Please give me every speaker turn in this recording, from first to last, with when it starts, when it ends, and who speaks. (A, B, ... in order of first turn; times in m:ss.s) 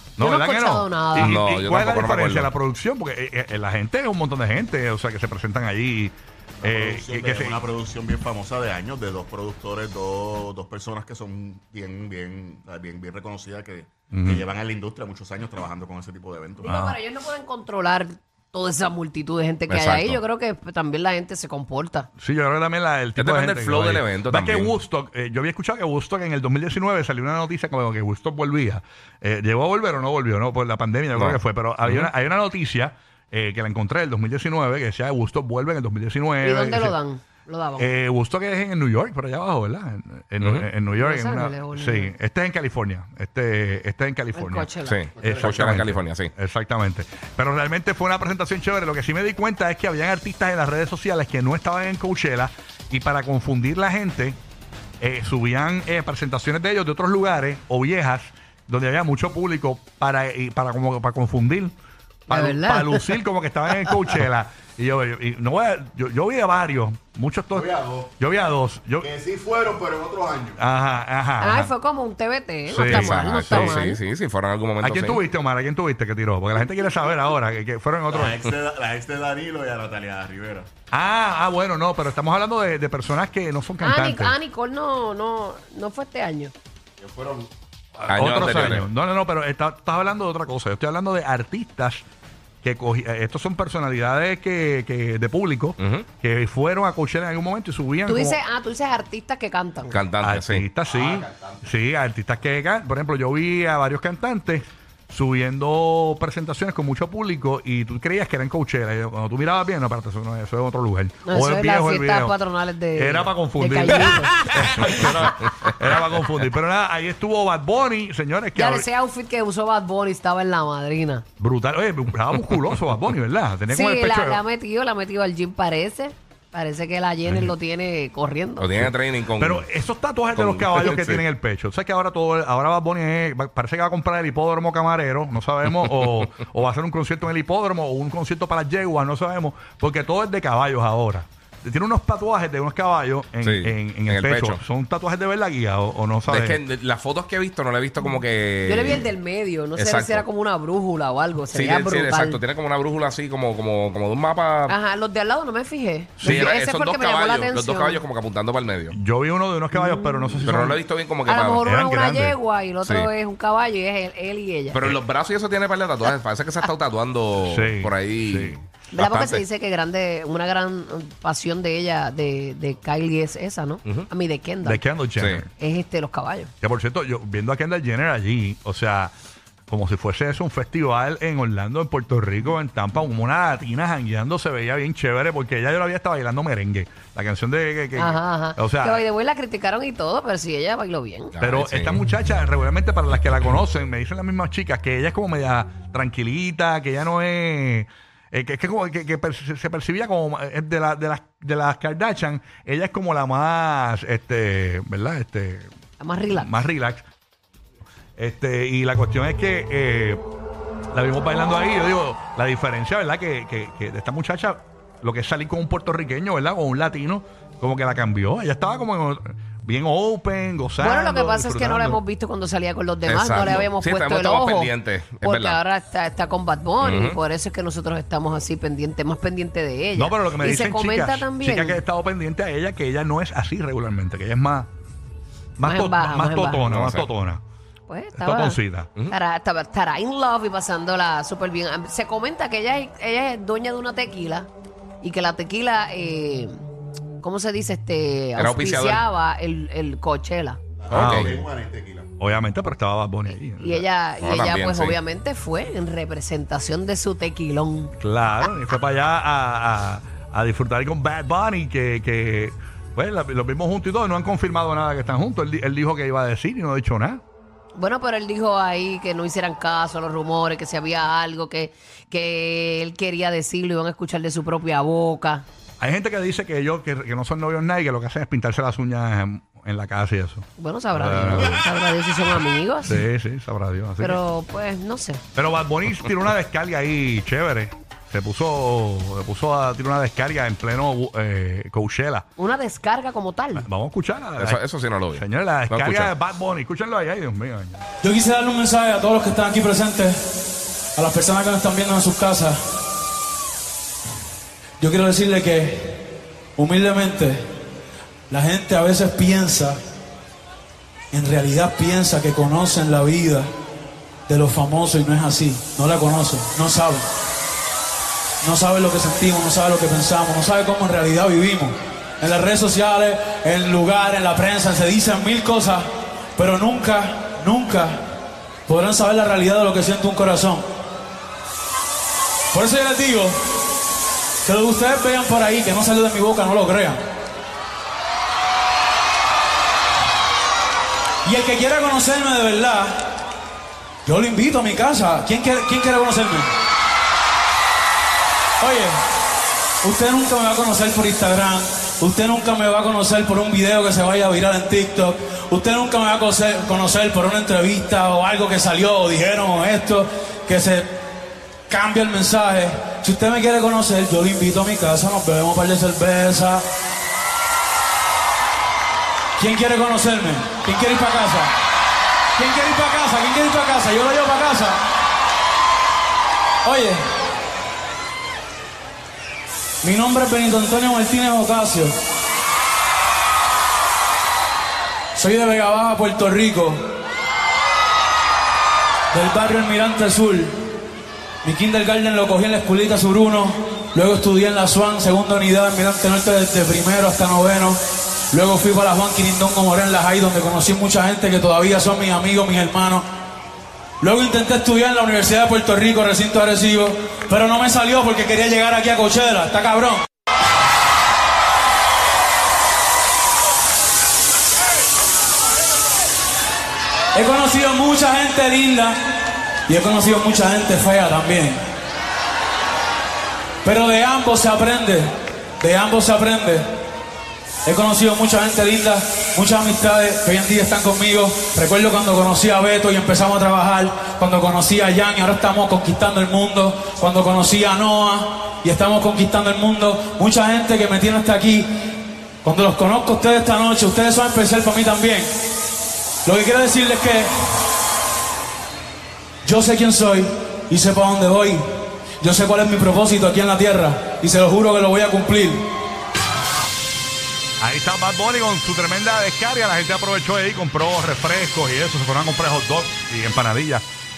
0:00.2-0:07.6 A
0:00.2-0:01.4 B
0:01.2-0:02.5 C
0:06.6-0:16.7 D
0:14.1-0:14.5 A
0:16.6-0:22.1 B
0:16.6-0:17.0 A
0:19.7-0:20.2 C
0:22.2-0:37.0 A
0:23.2-0:24.7 C
0:31.1-0:32.1 C
0:36.4-0:37.9 B
0:37.8-0:54.4 A
0:40.4-0:40.7 C
0:41.0-0:42.1 B
0:44.3-0:45.0 B
0:44.8-0:46.3 C
0:45.2-0:45.4 D
0:55.0-1:01.7 A
1:02.3-1:03.2 B
1:02.3-1:09.1 A
1:07.5-1:08.1 D
1:09.0-1:10.6 D
1:10.6-1:11.7 A
1:11.4-1:14.0 B
1:12.7-1:13.8 A
1:12.7-1:15.2 C
1:14.8-1:18.4 A
1:18.1-1:20.7 D
1:20.9-1:24.4 A
1:23.8-1:26.5 B
1:27.0-1:27.5 D
1:28.1-1:28.9 C
1:28.1-1:32.0 A
1:32.6-1:38.4 A
1:35.8-1:36.0 C
1:38.0-1:40.0 B
1:39.9-1:40.7 C
1:40.2-1:52.4 A
1:40.9-1:41.5 D
1:51.2-1:54.3 B
1:52.9-1:58.9 A
1:58.5-2:01.2 B
2:01.4-2:04.4 A
2:03.7-2:08.9 B
2:07.2-2:07.5 A
2:08.6-2:09.6 C
2:08.8-2:26.6 A
2:10.3-2:11.2 C
2:15.8-2:16.1 C
2:23.4-2:24.6 C
2:26.3-2:29.0 C
2:28.6-2:32.4 B
2:29.8-2:30.2 C
2:31.5-2:34.7 C
2:34.7-2:38.0 B
2:36.2-2:39.0 C
2:38.9-2:40.8 A
2:40.2-2:41.6 C
2:41.2-2:44.8 B
2:41.6-2:42.4 A
2:42.8-2:43.1 C
2:44.7-2:49.4 C
2:47.4-2:48.6 A
2:48.9-2:54.8 B
2:54.6-2:55.5 A
2:55.2-2:55.4 C
2:55.6-2:56.5 B
2:56.6-2:59.1 A
2:59.7-3:09.0 A
3:08.0-3:11.3 B
3:11.3-3:12.0 C
3:11.4-3:25.7 A
3:26.0-3:26.6 B
3:26.3-3:27.0 A
3:28.2-3:30.2 A
3:30.9-3:42.0 A
3:40.8-3:51.8 B
3:43.1-3:45.6 C
3:46.8-3:47.2 C
3:49.9-3:54.7 A
3:55.6-3:57.4 A
3:55.6-3:56.6 B
3:56.7-3:57.1 C
3:57.9-4:04.5 B
3:58.2-3:58.9 A
4:05.0-4:06.6 B
4:07.2-4:10.6 B
4:08.4-4:09.0 C
4:10.8-4:12.1 D
4:10.9-4:11.3 C
4:10.9-4:11.4 A
4:12.2-4:13.8 A
4:13.4-4:17.9 B
4:14.2-4:15.0 C
4:18.0-4:27.2 A
4:27.8-4:35.4 B
4:35.8-4:41.6 A
4:40.6-4:43.0 B
4:42.8-4:44.2 A
4:44.0-4:45.2 B
4:45.3-4:52.2 A
4:52.4-4:53.7 B
4:53.6-4:57.8 A
4:54.4-4:56.1 C
4:58.0-5:00.2 E
5:01.0-5:02.6 E
5:04.8-5:06.0 E
5:06.6-5:07.4 E
5:08.3-5:09.8 E
5:11.1-5:13.5 E
5:14.3-5:17.1 E
5:18.4-5:25.8 E
5:26.4-5:28.0 E
5:28.7-5:30.6 E
5:32.5-5:33.3 E
5:34.4-5:37.0 E
5:41.2-5:43.1 E
5:44.0-5:46.5 E
5:48.6-5:49.0 E
5:49.8-6:00.9 E
6:01.7-6:06.6 E
6:09.4-6:11.5 E
6:12.3-6:14.8 E
6:16.6-6:17.0 E
6:19.8-6:21.9 E
6:25.2-6:26.8 E
6:29.1-6:30.5 E
6:31.4-6:37.8 E
6:38.3-6:43.0 E
6:44.0-6:50.0 E
6:57.1-6:58.9 E
6:59.7-7:01.6 E
7:03.6-7:05.1 E
7:05.6-7:06.6 E
7:07.6-7:21.7 E
7:22.4-7:25.3 E
7:26.2-7:27.3 E
7:29.4-7:31.6 E
7:32.2-7:35.6 E
7:37.6-7:43.8 A